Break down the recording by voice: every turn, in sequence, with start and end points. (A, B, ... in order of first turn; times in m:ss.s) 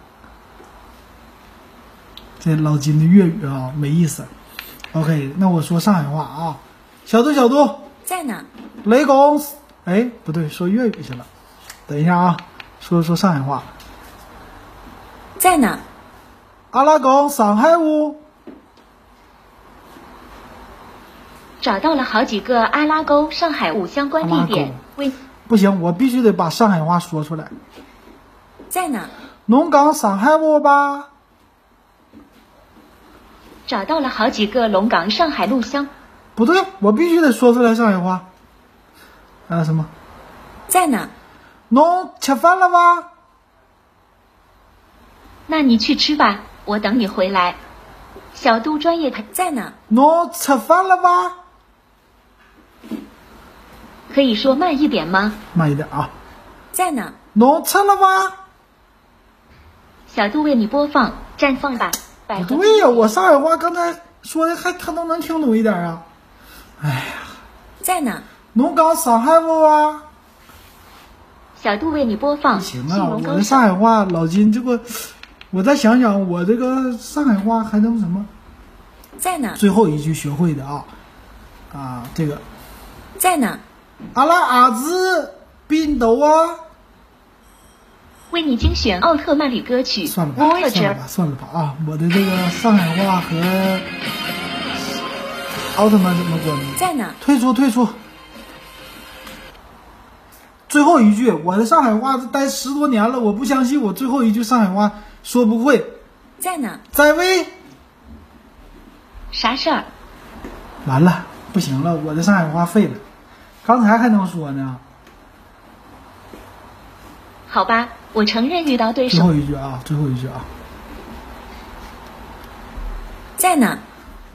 0:02.4-0:04.3 A
0:04.9-0:07.9 A
0:08.1-0:08.4 B
0:08.8-0:11.3 A
0:11.9-0:13.7 A
0:15.4-0:15.8 B
0:16.7-0:18.2 A
0:21.6-0:25.1 B
0:24.2-0:24.8 A
0:25.5-0:27.5 A
0:28.7-0:29.1 B
0:29.5-0:31.1 A
0:33.7-0:35.9 B
0:36.4-0:38.3 A
0:39.5-0:39.9 A
0:40.7-0:41.1 B
0:41.7-0:43.1 A
0:45.5-0:47.6 B
0:48.3-0:49.8 B
0:49.9-0:51.4 A
0:54.1-0:55.4 B
0:55.5-0:56.1 A
0:56.7-0:57.2 B
0:57.3-0:58.4 A
1:00.1-1:03.2 B
1:02.3-1:06.0 A
1:06.8-1:07.4 A
1:07.8-1:08.2 B
1:08.5-1:10.0 A
1:11.6-1:13.7 B
1:12.5-1:18.3 A
1:19.2-1:19.6 B
1:19.6-1:20.9 A
1:21.7-1:22.4 A
1:23.2-1:23.6 B
1:24.1-1:26.6 A
1:28.3-1:31.0 B
1:30.0-1:33.9 A
1:35.7-1:38.0 A
1:36.8-1:37.2 B
1:40.7-1:46.0 A
1:46.4-1:46.8 B
1:46.9-1:47.5 A
1:49.3-1:49.9 B
1:50.8-1:53.0 A
1:53.6-1:54.8 A
1:57.5-1:59.3 B
1:59.1-2:00.5 A
2:03.4-2:03.8 B